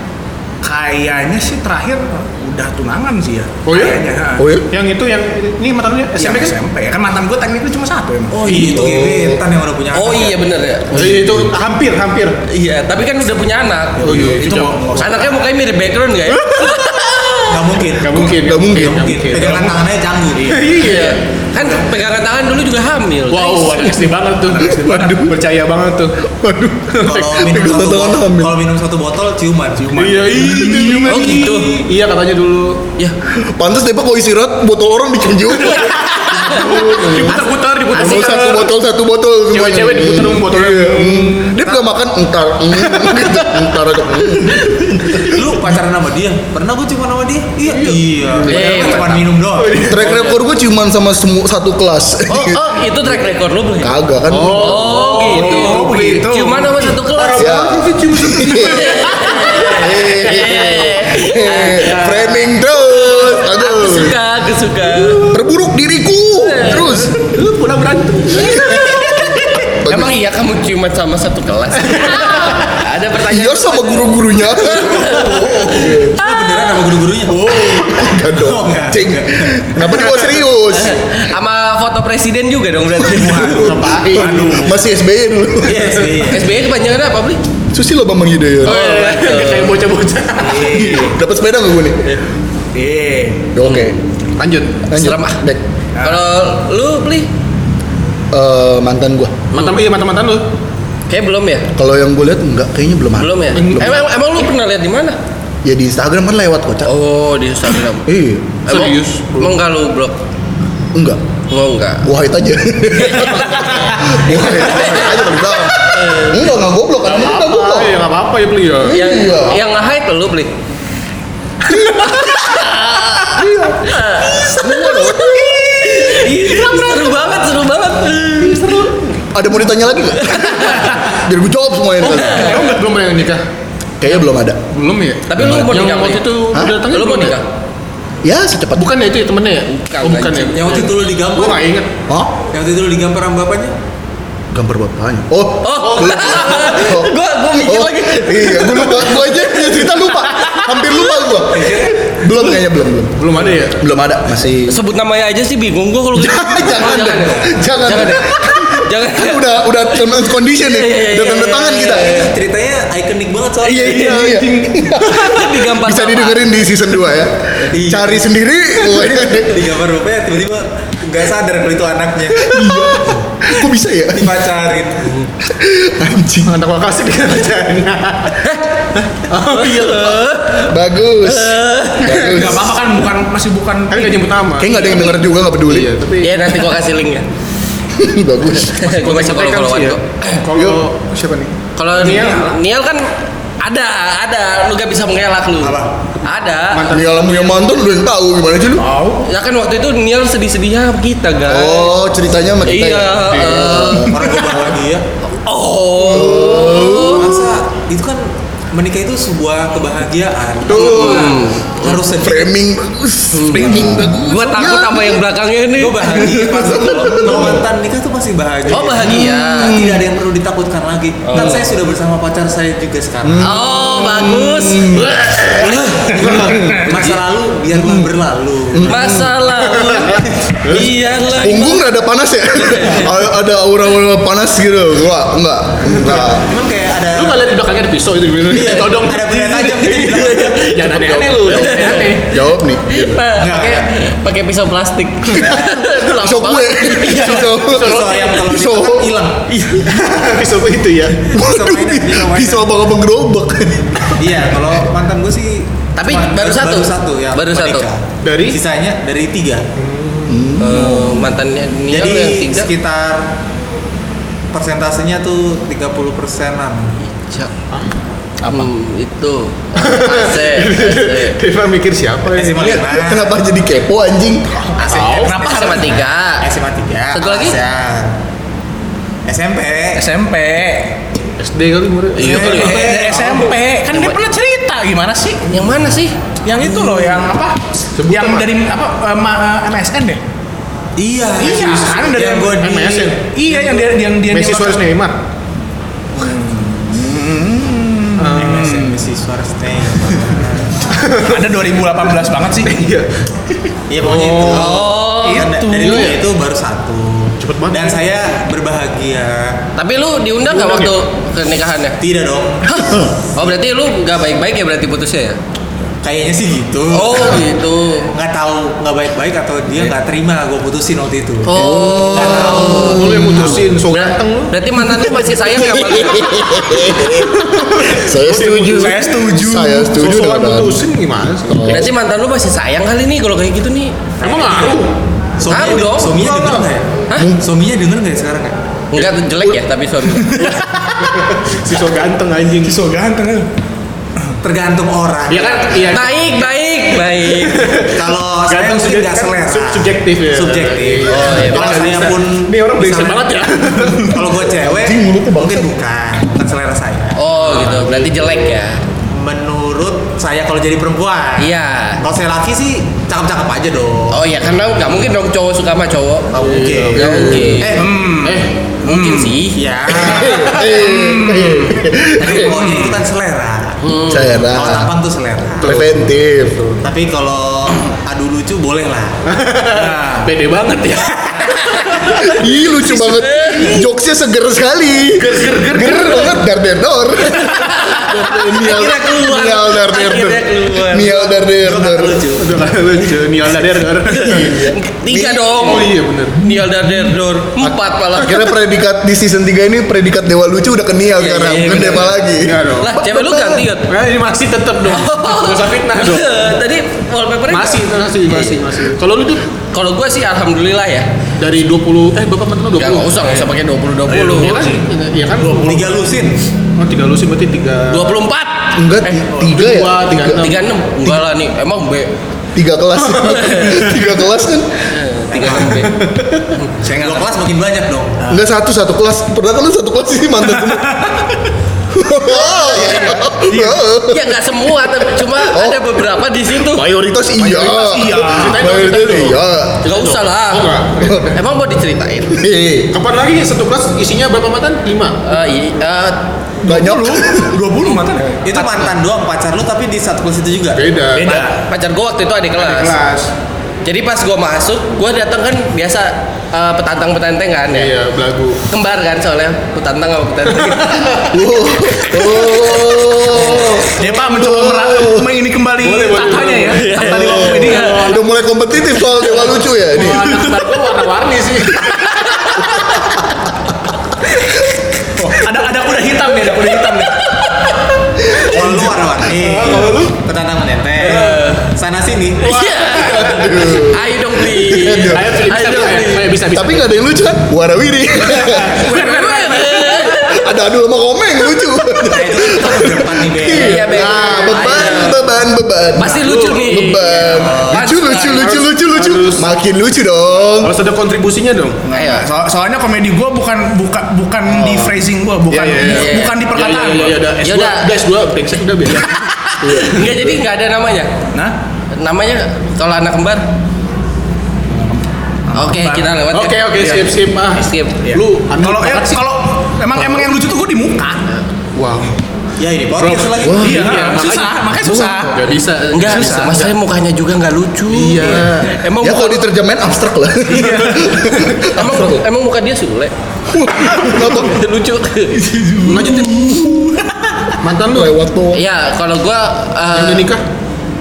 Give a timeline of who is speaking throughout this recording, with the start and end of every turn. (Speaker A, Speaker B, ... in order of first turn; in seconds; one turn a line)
Speaker A: 0.6-4.5
Speaker B: 3.7-4.0
Speaker C: 4.4-4.7
Speaker B: 4.6-6.6
Speaker A: 6.2-8.7
Speaker D: 8.3-10.4
Speaker C: 8.5-9.4
Speaker E: 9.9-11.0
Speaker B: 10.9-12.4
Speaker E: 12.5-14.4
Speaker A: 14.0-15.3
Speaker B: 14.0-15.3
Speaker E: 14.9-17.6
Speaker D: 17.4-20.7
Speaker B: 18.0-19.8
Speaker C: 18.5-18.9
Speaker B: 20.4-21.8
Speaker E: 20.6-24.0
Speaker B: 23.3-26.2
Speaker C: 24.5-25.4
Speaker C: 26.3-28.6
Speaker B: 26.9-27.4
Speaker D: 27.0-30.0
Speaker A: 29.8-31.5
Speaker B: 29.9-32.8
Speaker E: 31.1-31.7
Speaker C: 33.4-45.5
Speaker B: 35.7-38.7
Speaker E: 36.3-37.0
Speaker E: 37.9-38.7
Speaker B: 39.5-41.6
Speaker B: 42.8-44.5
Speaker D: 45.2-49.8
Speaker B: 47.7-50.1
Speaker E: 48.5-49.3
Speaker C: 49.8-53.2
Speaker E: 49.9-50.4
Speaker E: 52.3-57.6
Speaker C: 53.8-55.0
Speaker B: 54.3-56.3
Speaker A: 54.9-57.0
Speaker B: 57.1-61.0
Speaker C: 57.4-64.2
Speaker E: 58.6-65.2
Speaker B: 61.6-62.2
Speaker B: 64.8-65.4
Speaker C: 65.3-67.2
Speaker E: 66.4-67.1
Speaker B: 67.2-69.4
Speaker C: 68.6-69.1
Speaker E: 69.2-76.4
Speaker C: 69.7-70.2
Speaker B: 71.9-72.6
Speaker C: 73.2-76.2
Speaker D: 76.2-79.7
Speaker C: 77.7-81.0
Speaker E: 80.7-83.6
Speaker D: 83.0-84.7
Speaker C: 83.2-85.8
Speaker B: 83.5-84.7
Speaker A: 84.2-84.7
Speaker D: 85.6-86.5
Speaker B: 85.8-86.2
Speaker E: 86.2-87.4
Speaker C: 87.7-88.9
Speaker B: 88.6-91.1
Speaker E: 88.7-89.8
Speaker A: 90.4-91.1
Speaker C: 90.8-92.1
Speaker A: 92.7-93.5
Speaker C: 93.5-94.0
Speaker E: 93.6-93.9
Speaker B: 94.4-94.8
Speaker C: 94.9-95.6
Speaker E: 94.9-95.4
Speaker A: 96.0-96.2
Speaker E: 96.0-97.3
Speaker C: 98.3-99.3
Speaker E: 99.5-99.8
Speaker B: 99.5-100.5
Speaker E: 101.1-101.7
Speaker C: 101.8-104.1
Speaker E: 103.2-105.2
Speaker B: 103.6-104.0
Speaker C: 105.6-106.9
Speaker E: 106.8-108.1
Speaker C: 108.0-108.6
Speaker E: 108.7-110.2
Speaker B: 108.7-109.6
Speaker C: 110.9-111.2
Speaker E: 111.5-112.0
Speaker C: 112.0-118.0
Speaker E: 113.0-113.5
Speaker E: 114.3-116.4
Speaker B: 117.1-119.0
Speaker C: 118.8-119.6
Speaker E: 118.9-120.5
Speaker E: 121.9-128.9
Speaker C: 123.2-126.3
Speaker C: 129.3-132.7
Speaker E: 130.2-131.1
Speaker E: 132.0-132.6
Speaker B: 132.0-133.4
Speaker C: 134.0-134.6
Speaker B: 134.7-137.4
Speaker E: 135.3-136.3
Speaker C: 135.4-135.7
Speaker E: 136.9-137.4
Speaker C: 138.2-138.9
Speaker B: 138.8-141.9
Speaker E: 139.7-140.8
Speaker D: 140.5-141.6
Speaker C: 142.1-142.4
Speaker D: 142.5-143.7
Speaker C: 144.5-154.7
Speaker E: 145.6-151.0
Speaker B: 145.8-146.8
Speaker D: 151.5-152.0
Speaker B: 153.2-153.8
Speaker E: 154.7-159.6
Speaker C: 156.2-162.1
Speaker E: 160.6-162.3
Speaker D: 161.8-164.3
Speaker A: 163.7-164.5
Speaker B: 163.8-165.5
Speaker C: 163.9-169.7
Speaker E: 165.0-166.5
Speaker D: 167.7-168.3
Speaker D: 169.3-173.3
Speaker C: 172.3-174.4
Speaker D: 174.1-175.3
Speaker C: 175.4-176.5
Speaker B: 176.4-178.5
Speaker E: 178.4-178.8
Speaker B: 179.0-180.3
Speaker E: 179.5-182.3
Speaker C: 180.6-182.8
Speaker A: 182.1-184.3
Speaker B: 183.9-185.1
Speaker C: 184.6-185.9
Speaker B: 185.7-186.4
Speaker E: 186.2-187.2
Speaker C: 187.9-188.9
Speaker E: 188.7-190.5
Speaker B: 188.8-192.6
Speaker C: 190.6-190.8
Speaker E: 191.8-193.1
Speaker E: 193.6-196.8
Speaker D: 195.6-195.9
Speaker B: 196.2-197.6
Speaker C: 196.9-198.8
Speaker A: 198.8-199.3
Speaker E: 199.3-202.0
Speaker C: 201.5-204.3
Speaker E: 202.6-204.4
Speaker B: 203.3-203.6
Speaker D: 204.1-205.1
Speaker E: 205.2-207.2
Speaker C: 206.1-207.5
Speaker D: 207.0-212.5
Speaker C: 210.7-215.2
Speaker E: 210.7-211.8
Speaker E: 213.3-217.1
Speaker A: 213.5-214.2
Speaker D: 215.8-223.5
Speaker C: 216.1-217.6
Speaker E: 218.7-219.8
Speaker C: 219.0-220.1
Speaker E: 221.3-221.7
Speaker C: 223.2-225.2
Speaker E: 223.4-226.2
Speaker D: 225.6-229.0
Speaker B: 226.2-226.6
Speaker C: 227.7-228.1
Speaker C: 228.7-229.5
Speaker E: 228.9-231.8
Speaker B: 229.6-230.8
Speaker C: 231.3-236.4
Speaker E: 232.6-233.1
Speaker B: 235.8-236.4
Speaker D: 236.1-237.5
Speaker B: 237.2-242.4
Speaker D: 238.5-242.0
Speaker E: 240.1-242.3
Speaker C: 242.2-243.2
Speaker E: 242.9-247.5
Speaker D: 243.3-243.9
Speaker D: 245.4-245.9
Speaker C: 245.4-249.1
Speaker D: 247.1-249.5
Speaker E: 249.5-249.8
Speaker B: 249.7-251.2
Speaker D: 251.3-252.7
Speaker C: 251.3-254.4
Speaker D: 254.2-259.7
Speaker E: 256.0-257.9
Speaker B: 258.2-258.6
Speaker B: 259.8-260.5
Speaker C: 260.3-261.3
Speaker E: 260.6-262.7
Speaker D: 261.9-263.3
Speaker D: 264.5-267.0
Speaker E: 267.0-267.5
Speaker A: 268.4-268.7
Speaker E: 268.5-271.4
Speaker B: 269.8-272.8
Speaker D: 272.3-273.3
Speaker C: 272.6-274.7
Speaker E: 274.8-276.4
Speaker B: 274.8-275.4
Speaker D: 274.9-275.3
Speaker A: 275.2-276.0
Speaker D: 276.4-278.2
Speaker E: 277.1-277.6
Speaker D: 279.3-280.0
Speaker A: 279.9-281.0
Speaker B: 281.4-282.5
Speaker E: 282.1-283.0
Speaker D: 282.2-283.6
Speaker A: 282.4-285.6
Speaker E: 283.9-284.2
Speaker E: 285.5-286.1
Speaker A: 286.4-290.2
Speaker B: 288.0-288.5
Speaker D: 291.0-293.2
Speaker A: 291.4-292.6
Speaker B: 292.4-293.5
Speaker A: 293.3-294.8
Speaker B: 294.3-295.2
Speaker A: 296.1-299.0
Speaker B: 298.2-298.7
Speaker D: 298.4-300.9
Speaker B: 300.9-301.5
Speaker A: 301.2-302.8
Speaker B: 302.6-303.2
Speaker D: 303.9-309.6
Speaker B: 303.9-304.9
Speaker E: 304.5-305.5
Speaker A: 305.2-306.1
Speaker B: 305.8-306.2
Speaker B: 307.4-308.0
Speaker E: 309.8-312.0
Speaker B: 310.4-311.0
Speaker D: 312.0-312.7
Speaker E: 312.7-315.4
Speaker D: 316.0-317.5
Speaker E: 316.9-318.1
Speaker D: 318.1-321.5
Speaker E: 321.5-323.0
Speaker C: 321.5-323.6
Speaker D: 322.1-323.6
Speaker B: 322.5-324.5
Speaker E: 323.9-326.9
Speaker C: 325.5-330.8
Speaker B: 327.2-329.2
Speaker A: 328.6-329.9
Speaker B: 329.9-331.7
Speaker C: 331.5-331.9
Speaker E: 331.6-334.0
Speaker B: 334.2-334.9
Speaker D: 334.2-334.8
Speaker D: 335.4-338.6
Speaker E: 335.5-336.2
Speaker B: 336.1-336.7
Speaker E: 338.9-340.7
Speaker A: 340.2-340.5
Speaker B: 340.4-342.8
Speaker A: 342.6-343.5
Speaker D: 344.4-346.0
Speaker B: 345.3-346.1
Speaker E: 345.8-347.6
Speaker B: 347.2-354.3
Speaker D: 347.9-358.1
Speaker E: 351.1-352.1
Speaker C: 354.7-355.7
Speaker E: 357.2-358.8
Speaker D: 359.1-364.2
Speaker E: 361.4-362.0
Speaker E: 364.1-367.7
Speaker D: 366.3-367.9
Speaker B: 366.4-367.6
Speaker A: 367.7-371.8
Speaker B: 368.2-368.6
Speaker E: 368.8-369.6
Speaker D: 369.5-370.6
Speaker C: 370.1-372.6
Speaker B: 370.2-370.7
Speaker D: 372.2-373.8
Speaker A: 372.5-373.0
Speaker E: 373.8-374.4
Speaker C: 374.1-374.9
Speaker D: 374.5-375.7
Speaker C: 375.6-376.6
Speaker B: 375.6-376.8
Speaker D: 376.8-379.2
Speaker B: 379.3-382.6
Speaker A: 379.7-380.3
Speaker E: 381.6-382.0
Speaker C: 382.0-392.2
Speaker E: 382.9-383.7
Speaker B: 383.5-383.9
Speaker B: 385.2-386.4
Speaker E: 387.3-391.3
Speaker D: 391.6-392.5
Speaker B: 392.4-394.7
Speaker E: 394.2-398.6
Speaker C: 394.2-395.7
Speaker B: 395.5-396.4
Speaker C: 397.6-403.7
Speaker E: 401.1-402.2
Speaker B: 402.4-403.0
Speaker E: 402.8-403.9
Speaker B: 403.9-406.4
Speaker E: 404.9-408.6
Speaker B: 407.5-409.5
Speaker E: 409.7-411.1
Speaker B: 411.4-413.3
Speaker E: 412.8-414.7
Speaker A: 414.1-414.8
Speaker B: 414.1-416.0
Speaker A: 415.4-415.6
Speaker D: 415.5-416.4
Speaker B: 416.8-418.0
Speaker E: 417.9-418.9
Speaker C: 418.8-420.5
Speaker B: 419.4-420.7
Speaker E: 420.4-422.1
Speaker C: 422.6-424.9
Speaker E: 423.2-423.8
Speaker E: 424.9-426.0
Speaker B: 425.3-426.5
Speaker A: 426.8-427.3
Speaker D: 426.9-428.2
Speaker C: 428.3-431.1
Speaker A: 430.6-431.4
Speaker C: 431.9-439.8
Speaker B: 432.4-433.8
Speaker E: 432.8-433.1
Speaker E: 434.1-436.9
Speaker B: 437.4-441.3
Speaker A: 437.7-438.7
Speaker E: 439.8-440.7
Speaker C: 441.0-441.3
Speaker E: 441.3-442.4
Speaker C: 442.4-442.9
Speaker B: 442.9-445.2
Speaker E: 445.2-446.2
Speaker C: 446.6-447.5
Speaker A: 446.6-448.5
Speaker D: 448.4-450.9
Speaker E: 448.5-448.9
Speaker B: 450.8-451.4
Speaker A: 451.1-451.6
Speaker E: 451.2-453.0
Speaker B: 452.6-453.3
Speaker E: 453.9-457.9
Speaker B: 457.7-458.6
Speaker E: 458.7-461.3
Speaker B: 460.5-461.1
Speaker C: 461.3-465.3
Speaker E: 462.0-463.9
Speaker A: 463.9-468.0
Speaker B: 465.8-468.2
Speaker E: 466.7-467.9
Speaker C: 467.2-470.4
Speaker B: 469.9-472.4
Speaker E: 472.1-472.7
Speaker A: 475.2-477.3
Speaker C: 478.4-478.9
Speaker D: 478.4-482.6
Speaker B: 479.3-480.1
Speaker E: 481.0-481.7
Speaker B: 481.1-481.5
Speaker E: 482.4-486.3
Speaker B: 482.5-483.6
Speaker C: 483.0-485.4
Speaker B: 485.0-486.9
Speaker C: 486.5-488.8
Speaker B: 488.3-490.1
Speaker E: 488.8-490.5
Speaker A: 489.0-490.0
Speaker C: 490.1-500.7
Speaker D: 492.0-495.2
Speaker E: 493.5-495.2
Speaker E: 496.0-498.6
Speaker B: 496.1-496.7
Speaker D: 497.4-497.7
Speaker B: 498.2-499.5
Speaker B: 500.6-501.9
Speaker A: 501.9-507.3
Speaker E: 501.9-502.3
Speaker B: 504.5-505.0
Speaker B: 505.5-509.2
Speaker E: 505.8-506.4
Speaker E: 507.4-507.9
Speaker E: 509.5-511.1
Speaker C: 509.6-510.3
Speaker E: 512.0-513.4
Speaker A: 514.7-516.2
Speaker E: 515.5-518.0
Speaker B: 516.3-519.2
Speaker A: 516.8-517.1
Speaker A: 518.0-521.3
Speaker B: 521.8-522.2
Speaker D: 522.6-524.1
Speaker B: 522.9-526.8
Speaker C: 523.4-523.9
Speaker A: 523.6-525.6
Speaker C: 524.8-525.3
Speaker E: 525.9-529.5
Speaker B: 527.9-528.6
Speaker C: 528.2-532.2
Speaker A: 530.5-531.2
Speaker E: 531.7-533.1
Speaker C: 533.5-534.6
Speaker E: 533.9-535.5
Speaker A: 535.4-537.5
Speaker B: 535.8-536.5
Speaker C: 535.9-536.2
Speaker B: 537.6-538.1
Speaker C: 537.9-538.6
Speaker E: 538.5-540.3
Speaker B: 539.9-540.4